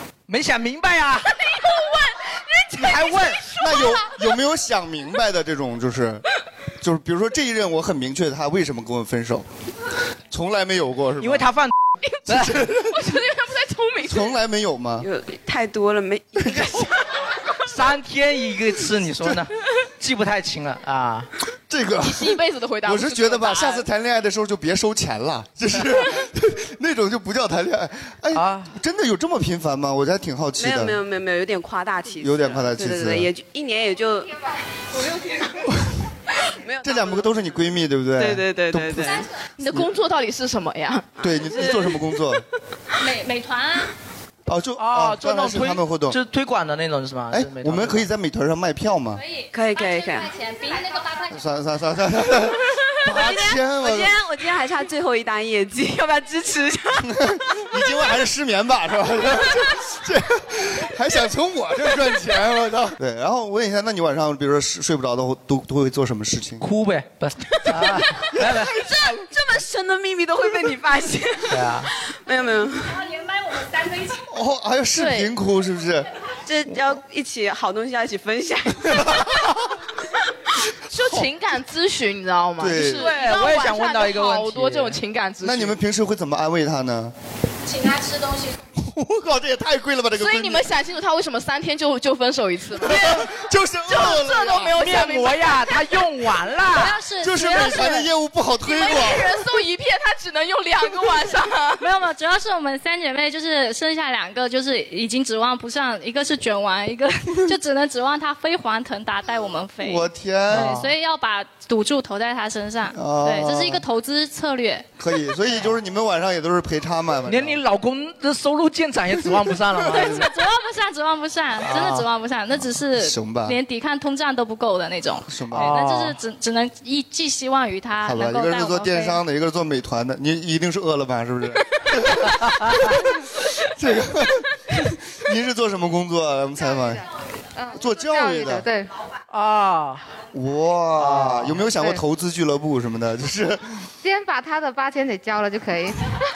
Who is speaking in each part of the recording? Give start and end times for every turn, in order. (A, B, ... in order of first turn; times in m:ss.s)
0:00.3-0:01.4 A
0:01.4-0:02.2 B
0:02.7-0:03.4 A
0:03.5-0:06.2 C
0:03.6-0:03.9 B
0:06.8-0:09.4 C
0:10.3-0:11.5 C
0:11.2-0:12.6 A
0:12.3-0:13.0 C
0:12.9-0:14.3 B
0:14.0-0:15.1 C
0:15.0-0:16.9 D
0:16.4-0:16.9 C
0:17.7-0:21.3 A
0:19.2-0:19.4 C
0:21.7-0:31.0 C
0:22.0-0:23.8 B
0:28.3-0:28.7 A
0:30.6-0:34.3 D
0:32.2-0:33.3 C
0:36.5-0:37.6 D
0:36.8-0:39.9 C
0:38.2-0:39.3 D
0:39.6-0:41.1 B
0:41.2-0:42.1 D
0:41.2-0:42.4 C
0:43.0-0:43.9 E
0:44.5-0:46.2 C
0:44.8-0:48.1 A
0:47.3-0:49.2 C
0:49.2-0:51.3 E
0:49.5-0:50.3 D
0:51.3-0:54.2 C
0:53.0-0:57.1 D
0:57.0-1:06.6 C
1:06.6-1:08.7 A
1:07.7-1:08.2 C
1:08.5-1:13.0 D
1:11.5-1:11.9 A
1:12.9-1:14.2 E
1:14.3-1:16.1 C
1:15.0-1:15.3 B
1:16.4-1:19.2 D
1:18.8-1:19.7 C
1:20.9-1:25.8 B
1:22.6-1:23.1 C
1:22.8-1:25.0 A
1:25.4-1:27.1 C
1:27.6-1:28.6 E
1:28.8-1:30.7 C
1:30.2-1:33.3 B
1:32.8-1:34.8 C
1:33.9-1:35.8 B
1:34.7-1:37.0 A
1:36.7-1:38.1 E
1:37.2-1:39.4 C
1:38.6-1:41.8 B
1:41.8-1:54.9 E
1:49.8-1:50.9 C
1:50.5-1:50.9 A
1:52.9-1:53.8 C
1:55.0-1:57.6 C
1:57.3-2:00.3 A
1:59.8-2:00.1 C
1:59.9-2:09.2 E
2:01.6-2:02.1 A
2:02.7-2:03.6 C
2:05.3-2:05.7 C
2:05.5-2:06.2 A
2:08.0-2:17.0 C
2:17.6-2:18.9 F
2:17.7-2:18.6 C
2:19.3-2:20.0 A
2:20.3-2:23.8 C
2:21.0-2:21.9 A
2:24.0-2:26.0 F